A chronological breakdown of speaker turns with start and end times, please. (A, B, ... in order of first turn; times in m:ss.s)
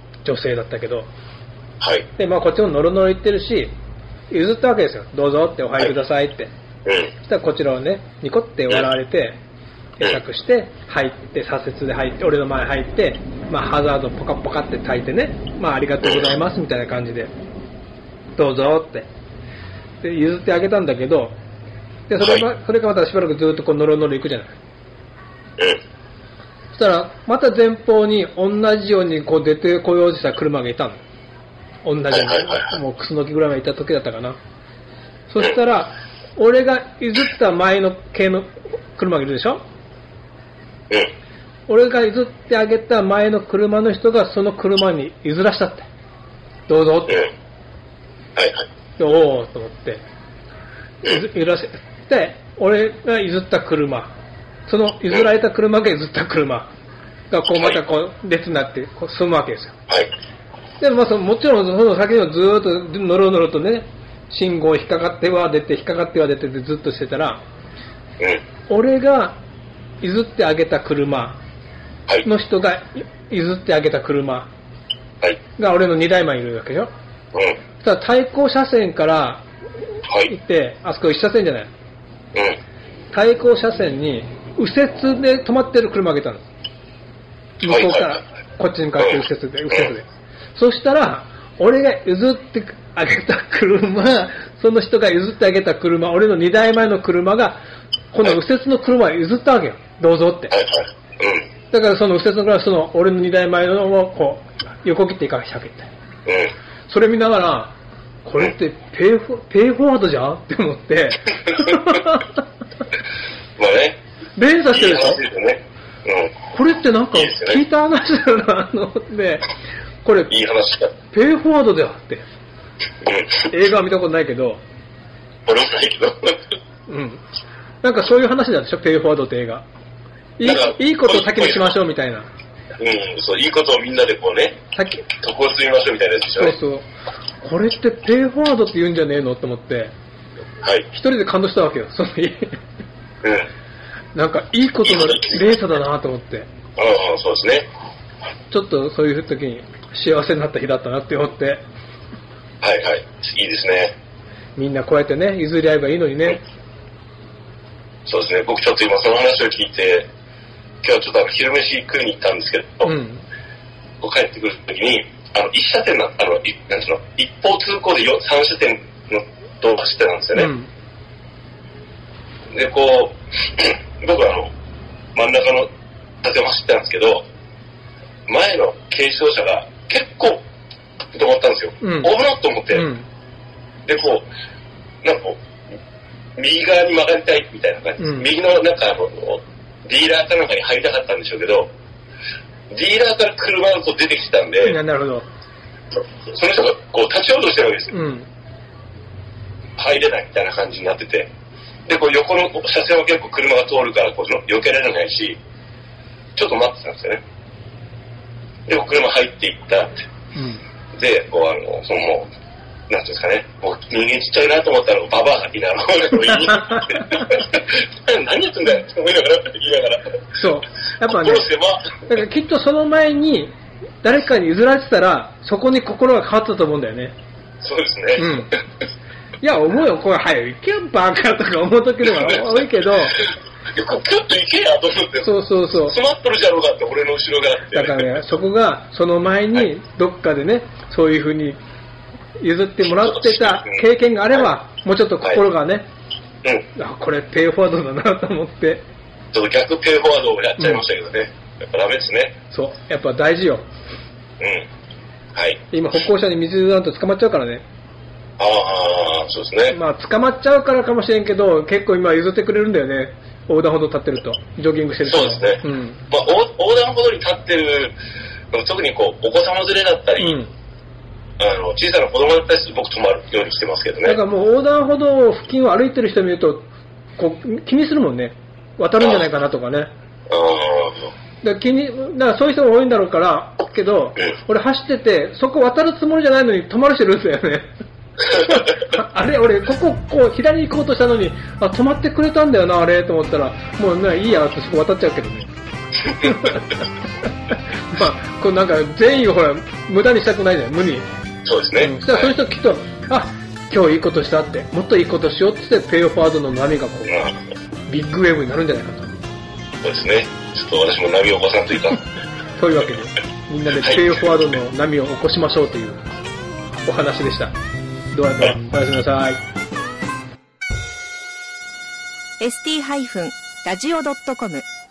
0:00.2-0:01.1 A
0:01.8-0:02.1 B
0:02.2-0:03.7 A
0:04.3-0:06.5 A
0:06.8-0:07.1 B
0:07.2-0:09.4 A
0:10.0-0:17.3 A
0:16.0-0:16.4 B
0:18.4-0:19.1 A
0:20.0-0:21.4 A
0:22.1-0:24.6 A
0:22.2-0:22.4 B
0:26.7-0:31.0 A
0:31.8-0:34.4 A
0:32.1-0:32.7 B
0:35.3-0:39.6 A
0:41.7-0:45.9 A
0:46.7-0:47.3 A
0:48.4-0:48.6 B
0:49.0-0:50.0 A
0:51.0-0:54.1 A
0:54.7-0:56.7 A
0:57.3-0:59.8 A
1:00.8-1:07.4 A
1:08.7-1:09.4 A
1:10.0-1:11.4 A
1:12.2-1:14.5 A
1:15.6-1:16.9 A
1:17.3-1:17.6 B
1:17.8-1:19.4 A
1:20.1-1:20.3 B
1:20.3-1:21.7 A
1:23.1-1:26.5 A
1:27.6-1:37.6 A
1:27.6-1:28.2 B
1:29.0-1:29.9 B
1:38.1-1:40.5 A
1:40.5-1:41.5 B
1:41.7-1:45.9 A
1:46.3-1:46.5 B
1:46.9-1:52.4 A
1:53.6-1:54.0 B
1:54.4-1:55.2 A
1:54.7-1:56.4 B
1:56.5-1:59.5 A
1:57.1-1:57.6 B
2:00.0-2:00.4 A
2:00.3-2:00.9 B
2:01.1-2:02.3 A
2:03.0-2:03.5 B
2:03.5-2:04.6 A
2:05.5-2:06.4 B
2:06.9-2:07.2 A
2:07.8-2:09.7 A
2:10.4-2:12.3 A
2:10.4-2:11.8 B
2:12.8-2:14.6 B
2:14.7-2:15.1 A
2:15.2-2:16.6 B
2:16.4-2:16.9 A
2:17.4-2:19.9 A
2:20.9-2:22.6 A
2:23.2-2:23.5 B
2:24.2-2:26.5 A
2:24.8-2:25.6 B
2:26.8-2:27.7 B
2:28.5-2:31.6 A
2:32.6-2:34.0 B
2:34.6-2:36.4 A
2:38.1-2:40.1 B
2:40.8-2:42.9 B
2:42.8-2:43.2 A
2:44.0-2:50.5 B
2:50.4-2:50.7 A
2:52.5-2:54.5 B
2:55.2-2:55.7 B
2:56.2-2:57.3 B
2:58.3-3:00.4 B
3:01.1-3:02.9 B
3:01.8-3:02.1 A
3:02.7-3:03.1 A
3:03.9-3:04.3 B
3:05.0-3:05.4 B
3:06.4-3:11.7 B
3:08.0-3:08.3 A
3:12.7-3:14.8 B
3:14.6-3:15.3 A
3:16.3-3:18.0 B
3:17.9-3:18.3 A
3:19.8-3:21.3 B
3:21.9-3:25.4 B
3:26.4-3:27.2 B
3:28.7-3:30.0 B
3:30.4-3:30.6 A
3:31.0-3:32.3 B
3:32.9-3:40.2 B
3:40.4-3:47.2 A
3:41.0-3:42.0 B
3:47.6-3:48.5 B
3:48.2-3:48.6 A
3:49.4-3:53.2 A
3:52.0-3:58.1 B
3:55.2-3:56.0 A
3:57.7-4:01.6 A
4:02.4-4:05.9 A
4:02.8-4:04.5 B
4:06.8-4:08.8 A
4:09.3-4:12.4 B
4:10.6-4:10.8 A
4:12.5-4:13.6 A
4:14.4-4:14.7 B
4:15.4-4:15.6 B
4:15.7-4:17.6 A
4:18.4-4:19.8 B
4:19.7-4:26.0 A
4:25.1-4:28.0 B
4:28.5-4:30.4 B
4:30.2-4:30.5 A
4:31.4-4:34.2 B
4:34.0-4:39.9 A
4:40.3-4:41.1 B
4:41.4-4:47.7 A
4:48.2-4:55.5 A
4:56.1-4:56.8 A
4:57.9-5:01.1 A
5:01.4-5:02.3 B
5:01.8-5:07.2 A
5:07.1-5:07.4 B
5:07.9-5:09.1 A
5:09.8-5:12.0 B
5:12.6-5:16.1 A
5:13.8-5:14.2 B
5:16.8-5:17.6 A
5:18.1-5:19.4 A
5:22.4-5:24.6 C